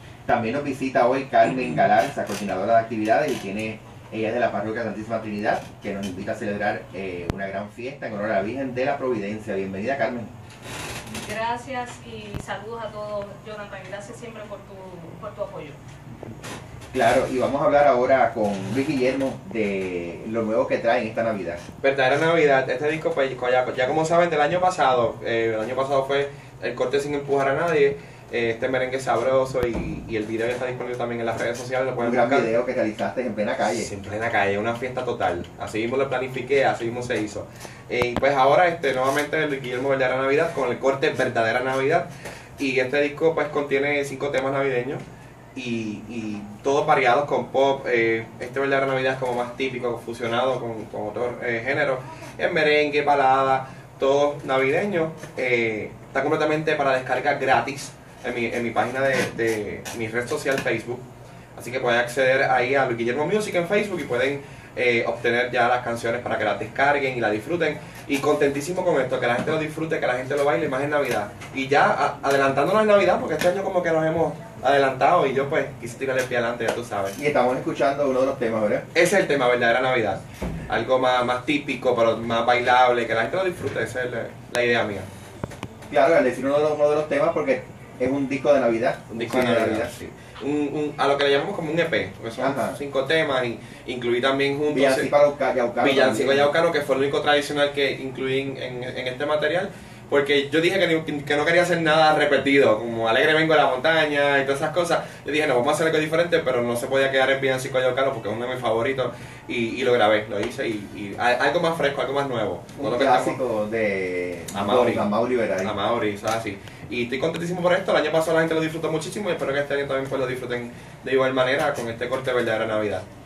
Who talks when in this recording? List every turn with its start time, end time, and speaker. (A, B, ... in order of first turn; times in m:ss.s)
0:00.3-0:10.3 A
0:11.1-0:15.8 B
0:16.9-0:21.6 A
0:21.8-0:32.5 C
0:32.0-0:33.9 A
0:33.6-0:45.0 C
0:45.6-1:01.0 C
1:01.6-1:17.2 C
1:17.2-1:18.9 A
1:18.9-1:25.1 C
1:25.9-1:29.9 A
1:29.1-1:35.1 C
1:32.4-1:32.8 A
1:34.7-1:36.5 A
1:35.8-1:53.4 C
1:52.8-1:55.7 A
1:54.5-1:55.1 C
1:55.6-2:03.0 C